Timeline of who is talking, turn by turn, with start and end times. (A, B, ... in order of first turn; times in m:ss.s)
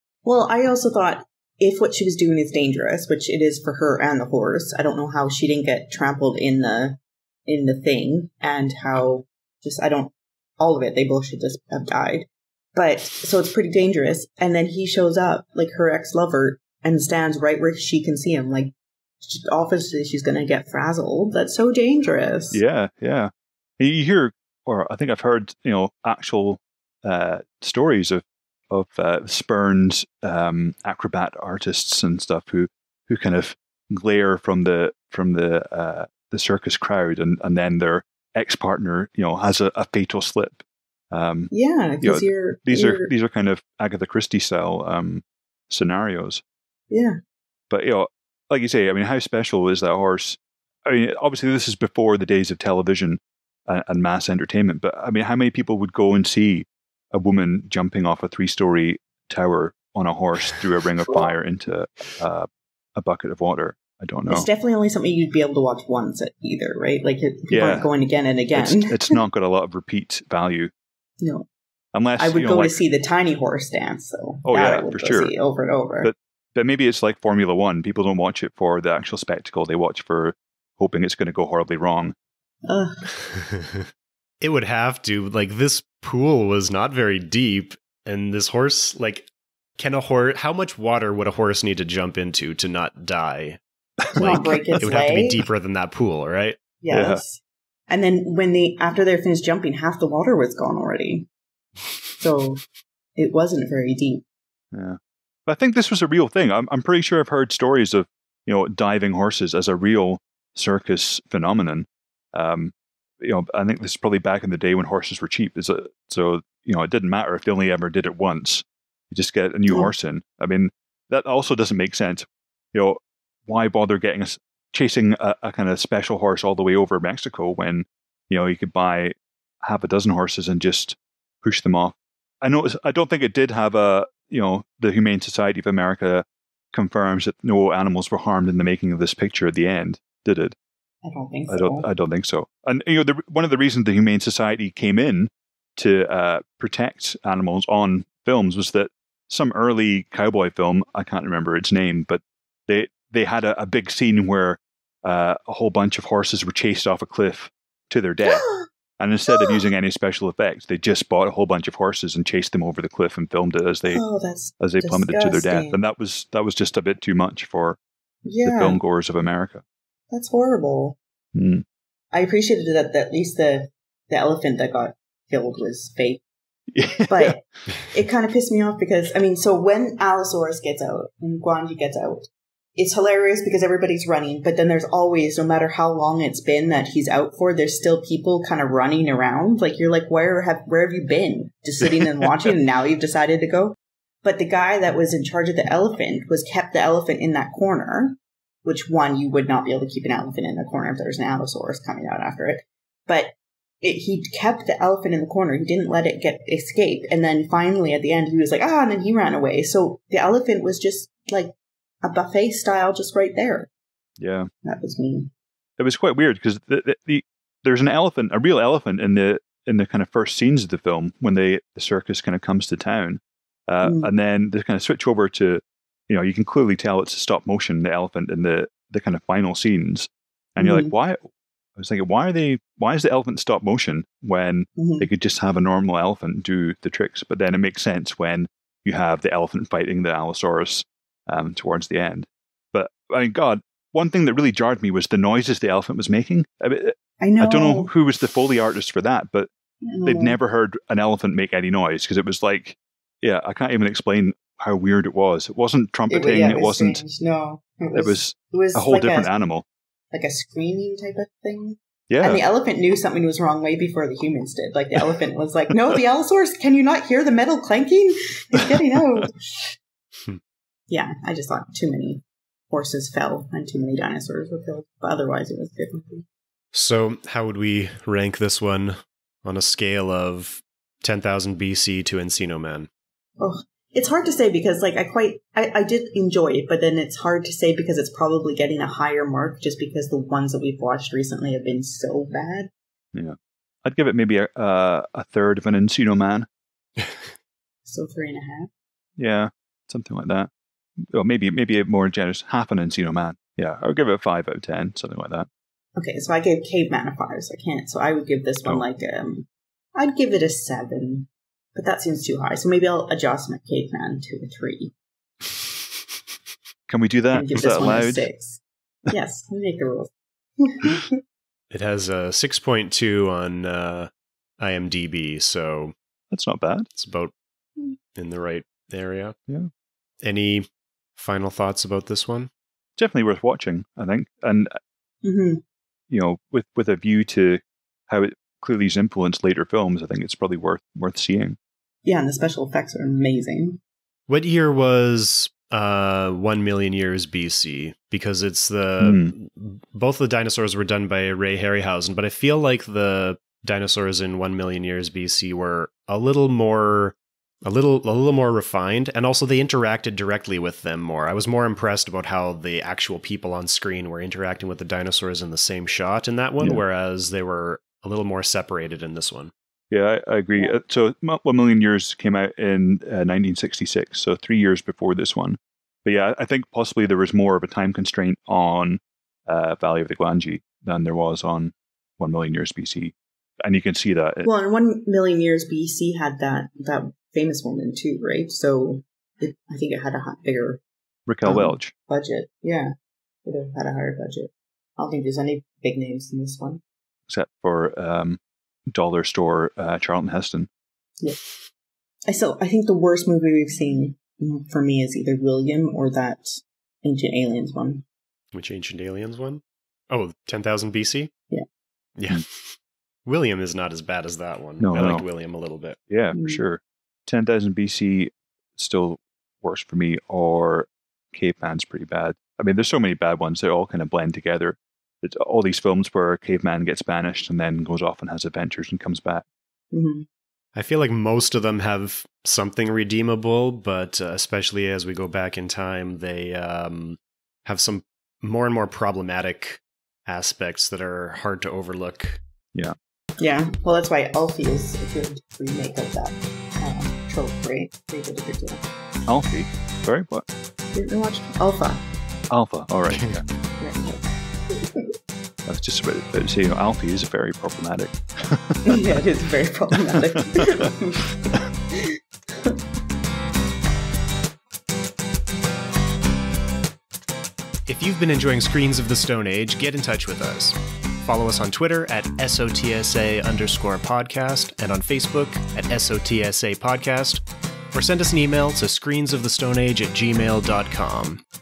0:00.2-0:22.6 A
0:22.5-0:46.4 B
0:41.5-0:43.1 A
0:46.9-0:47.2 A
0:47.7-1:04.5 B
1:01.1-1:01.3 A
1:04.3-1:09.2 A
1:07.5-1:07.9 B
1:08.5-1:10.7 B
1:11.2-1:11.5 A
1:11.9-1:12.8 B
1:12.2-1:16.1 A
1:14.4-1:15.3 B
1:16.0-1:22.1 B
1:22.6-1:23.0 A
1:23.1-1:23.9 C
1:24.4-1:33.6 C
1:34.1-1:34.6 B
1:34.1-1:36.6 C
1:34.2-1:35.4 A
1:36.8-1:41.3 A
1:36.9-1:37.2 B
1:42.2-1:42.6 A
1:43.2-1:44.2 A
1:44.7-2:20.6 B
1:59.7-1:59.9 A
2:21.0-2:21.9 A
2:21.5-2:38.4 B
2:38.2-2:38.6 A
2:39.0-2:44.0 B
2:39.3-2:39.6 A
2:43.9-2:45.8 A
2:44.6-2:47.8 B
2:48.2-2:48.8 A
2:48.4-2:49.6 B
2:50.1-2:51.0 A
2:51.3-2:51.6 B
2:52.1-2:56.2 A
2:56.7-2:57.4 B
2:57.1-3:33.7 A
3:34.2-3:34.5 B
3:34.6-3:35.3 A
3:35.8-3:51.2 B
3:43.8-3:44.1 A
3:50.6-3:50.9 A
3:51.8-4:09.5 B
3:54.8-3:55.1 A
4:07.2-4:07.9 A
4:09.8-4:10.4 A
4:10.0-4:17.0 B
4:16.1-4:19.3 A
4:17.9-4:19.6 B
4:20.1-4:29.7 A
4:22.1-4:22.4 B
4:30.9-4:36.3 A
4:36.7-4:42.9 C
4:43.4-4:52.7 A
4:53.1-4:56.5 B
4:57.0-4:57.3 C
4:57.9-4:58.7 A
4:59.2-5:00.5 B
5:01.1-5:05.5 B
5:06.0-5:14.9 A
5:16.9-5:18.3 B
5:17.3-5:21.2 A
5:21.7-5:25.9 C
5:26.3-5:26.9 B
5:26.9-5:27.3 C
5:28.1-5:29.3 C
5:30.2-5:32.5 C
5:33.0-5:34.7 B
5:35.2-5:35.6 A
5:36.1-5:41.6 B
5:42.0-5:43.8 A
5:44.3-6:09.5 C
5:49.0-5:49.3 B
6:09.9-6:24.5 B
6:24.4-6:30.8 A
6:31.3-6:31.9 B
6:31.4-6:32.9 A
6:33.4-6:36.8 A
6:37.3-6:38.4 B
6:38.9-6:40.7 B
6:42.3-6:48.0 A
6:48.5-6:51.3 C
6:52.2-6:56.0 C
6:54.8-6:55.3 B
6:56.1-7:09.4 B
6:56.3-6:56.6 A
7:09.9-7:10.3 A
7:10.7-7:22.4 C
7:23.4-7:28.8 A
7:29.3-7:30.5 B
7:30.9-7:32.0 A
7:32.5-7:33.4 B
7:33.1-7:33.4 C
7:33.8-7:35.1 A
7:35.7-7:39.2 B
7:38.8-7:41.4 A
7:40.1-7:40.9 B
7:41.9-7:42.8 A
7:47.9-8:01.4 C